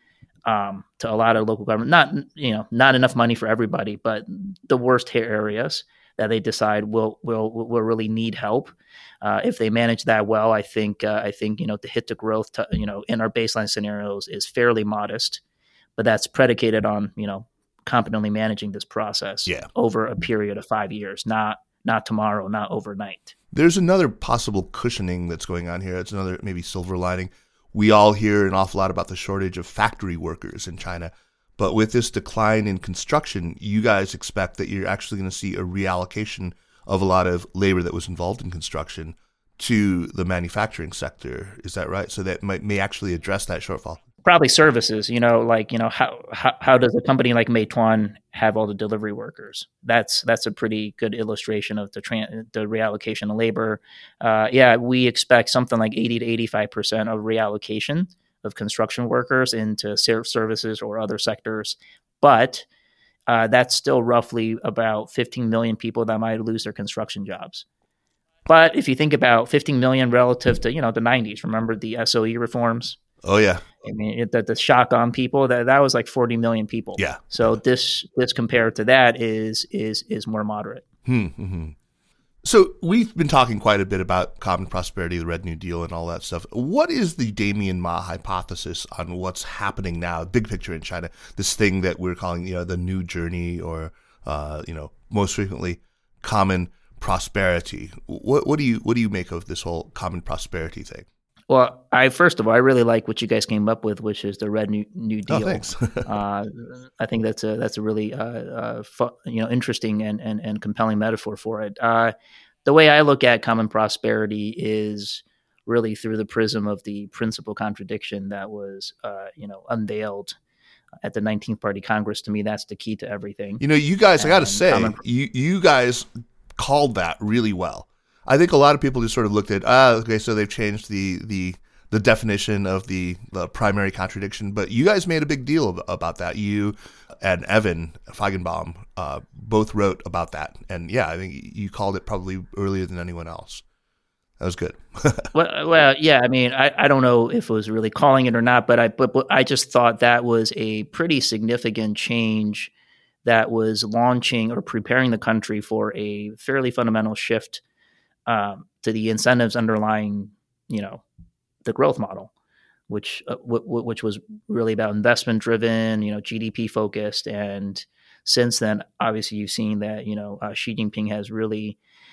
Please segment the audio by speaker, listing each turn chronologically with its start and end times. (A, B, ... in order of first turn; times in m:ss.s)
0:00.5-0:15.4 A
0:16.0-0:23.3 A
0:23.5-0:44.0 B
0:44.2-1:02.6 A
1:03.3-1:07.6 A
1:08.4-1:13.0 A
1:13.2-1:13.6 B
1:13.8-1:20.8 A
1:17.0-1:17.6 B
1:21.0-1:21.7 B
1:22.4-1:41.0 B
1:41.5-1:52.1 A
1:45.3-1:46.1 B
1:52.6-2:00.4 A
2:01.0-2:03.6 A
2:03.6-2:23.6 B
2:04.2-2:05.0 A
2:24.4-2:25.3 B
2:25.3-2:32.7 A
2:33.2-2:37.6 A
2:38.3-2:41.0 A
2:41.6-2:42.3 A
2:42.9-2:51.8 A